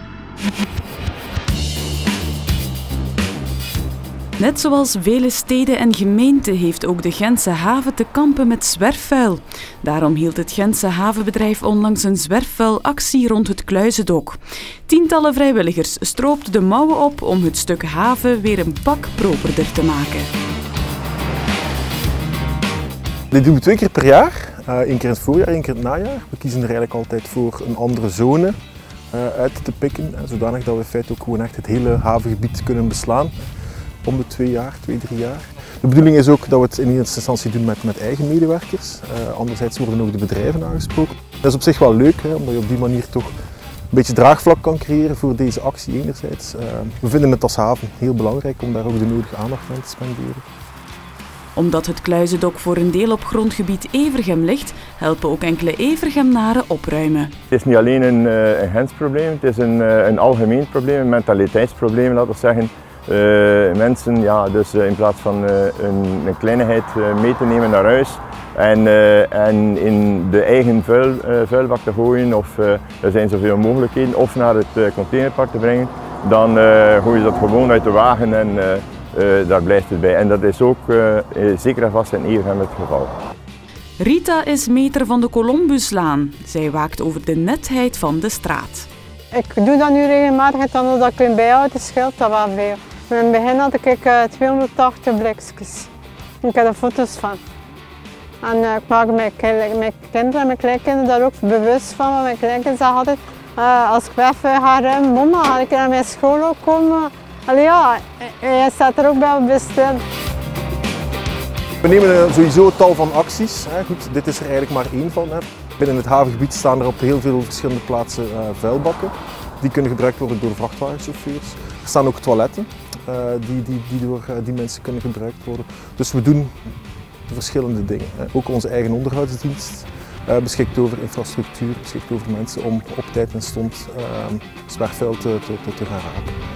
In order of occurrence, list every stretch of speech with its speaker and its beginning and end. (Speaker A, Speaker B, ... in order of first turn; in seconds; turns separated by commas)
Speaker A: 4.4-20.3, Speaker B: 23.3-28.6, Speaker B: 29.1-33.3, Speaker B: 34.0-43.4, Speaker B: 43.9-50.4, Speaker A: 51.6-57.3, Speaker C: 57.5-83.1, Speaker A: 84.0-88.9, Speaker D: 89.3-95.9, Speaker D: 96.4-97.4, Speaker D: 98.4-110.0, Speaker B: 111.8-126.5, Speaker B: 127.3-136.4